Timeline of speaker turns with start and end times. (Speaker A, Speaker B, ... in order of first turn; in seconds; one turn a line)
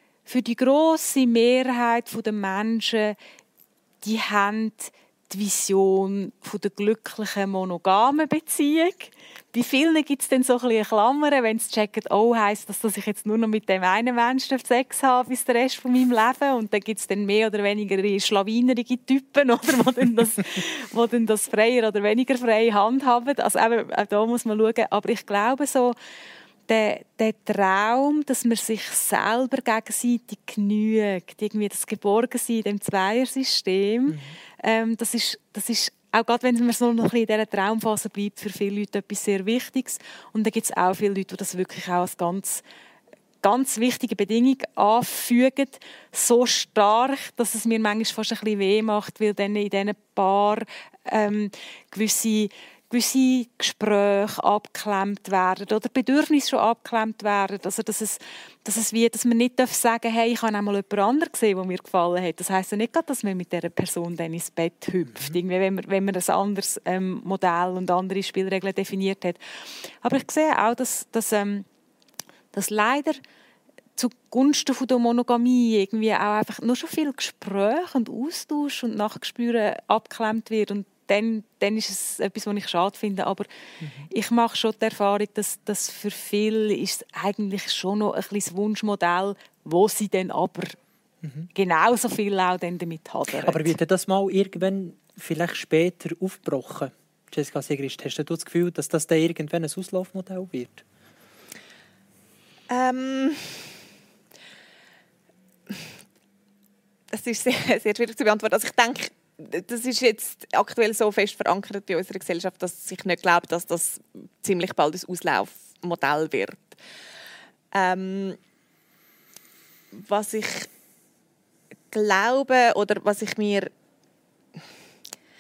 Speaker A: 0.3-3.2
Speaker A: 4.0-25.9
Speaker A: 26.7-42.6
Speaker B: 34.1-34.4
Speaker A: 43.4-71.7
Speaker B: 65.1-65.4
Speaker A: 72.5-73.2
Speaker A: 74.0-83.5
Speaker B: 83.8-84.1
Speaker A: 84.1-90.8
Speaker B: 91.2-91.5
Speaker A: 91.5-93.7
Speaker B: 93.4-100.8
Speaker C: 102.7-103.7
Speaker C: 107.1-116.8
Speaker C: 117.7-118.4
Speaker C: 119.9-120.7
Speaker C: 121.9-123.7